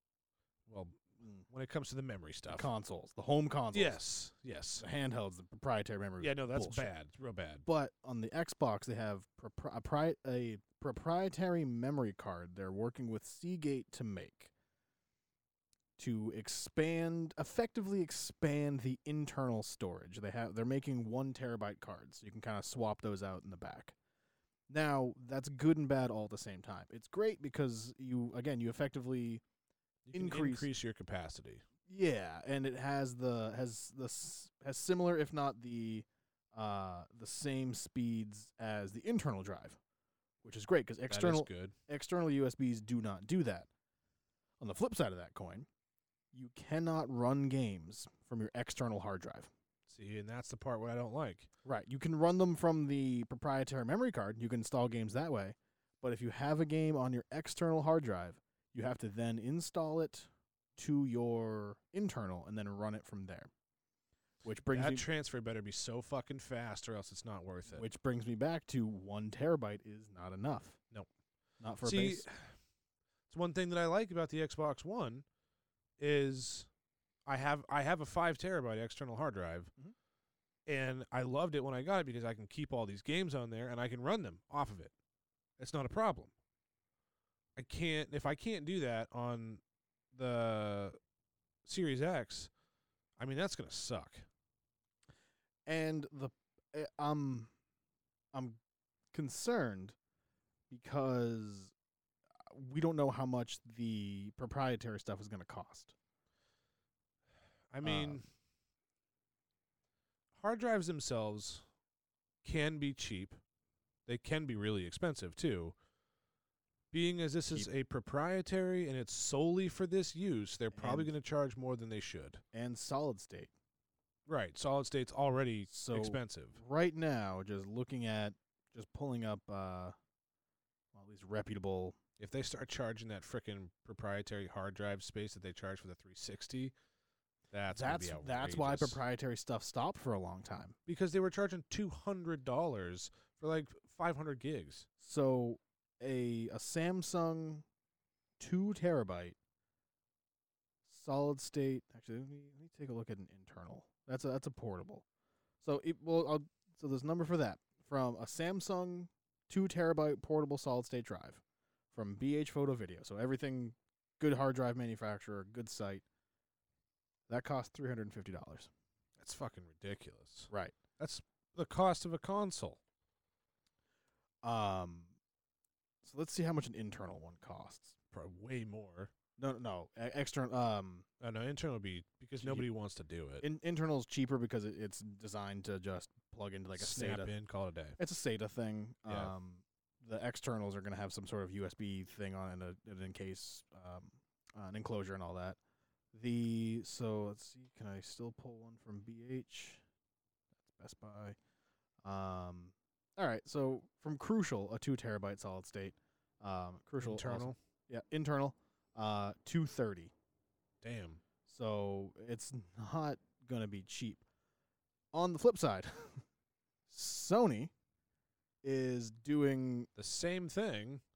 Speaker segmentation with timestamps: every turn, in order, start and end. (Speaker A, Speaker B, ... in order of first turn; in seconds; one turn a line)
Speaker A: 0.7-2.7
Speaker B: 2.5-4.0
Speaker A: 3.7-4.8
Speaker B: 4.8-6.9
Speaker A: 6.2-7.6
Speaker B: 7.7-14.5
Speaker B: 16.0-23.9
Speaker B: 24.7-29.4
Speaker A: 30.1-31.6
Speaker B: 30.1-30.7
Speaker B: 31.9-39.8
Speaker B: 40.4-43.7
Speaker A: 41.1-41.7
Speaker B: 44.6-45.7
Speaker B: 46.3-49.5
Speaker A: 49.9-51.5
Speaker B: 51.6-63.5
Speaker B: 64.4-65.0
Speaker A: 64.7-67.8
Speaker B: 67.7-70.8
Speaker B: 71.6-72.2
Speaker A: 71.8-72.5
Speaker A: 73.3-75.2
Speaker A: 76.0-76.7
Speaker A: 77.2-79.7
Speaker A: 80.7-84.9
Speaker A: 85.6-86.3
Speaker A: 87.5-89.6
Speaker A: 90.1-91.0
Speaker A: 91.7-92.5
Speaker A: 93.2-94.2
Speaker B: 95.7-97.5
Speaker B: 98.3-98.6
Speaker B: 99.1-100.0
Speaker B: 100.7-101.7
Speaker B: 102.4-105.9
Speaker A: 107.7-108.3
Speaker B: 107.8-108.2
Speaker A: 110.3-111.6
Speaker A: 112.4-113.4
Speaker A: 114.0-115.7
Speaker A: 116.9-122.4
Speaker B: 120.7-121.1
Speaker B: 122.5-123.5
Speaker A: 124.3-126.6
Speaker B: 125.7-129.9
Speaker B: 130.9-132.0
Speaker A: 132.2-136.7
Speaker A: 137.5-139.0
Speaker B: 137.7-140.7
Speaker A: 140.9-144.9
Speaker B: 145.0-147.6
Speaker B: 148.4-149.3
Speaker B: 150.9-155.0
Speaker B: 155.6-161.4
Speaker B: 161.9-166.0
Speaker B: 167.3-168.7
Speaker A: 169.2-172.8
Speaker B: 170.5-170.8
Speaker B: 174.4-175.1
Speaker B: 176.0-177.9
Speaker A: 178.1-179.1
Speaker B: 179.4-181.1
Speaker A: 181.2-183.4
Speaker B: 182.4-182.7
Speaker B: 183.4-187.3
Speaker A: 186.8-188.0
Speaker B: 188.0-195.6
Speaker A: 189.1-189.3
Speaker B: 196.1-199.8
Speaker B: 200.6-201.3
Speaker B: 202.0-210.1
Speaker A: 207.0-207.6
Speaker A: 210.8-211.2
Speaker B: 211.5-214.2
Speaker B: 215.1-216.2
Speaker B: 216.9-217.7
Speaker B: 218.6-219.9
Speaker A: 219.9-221.0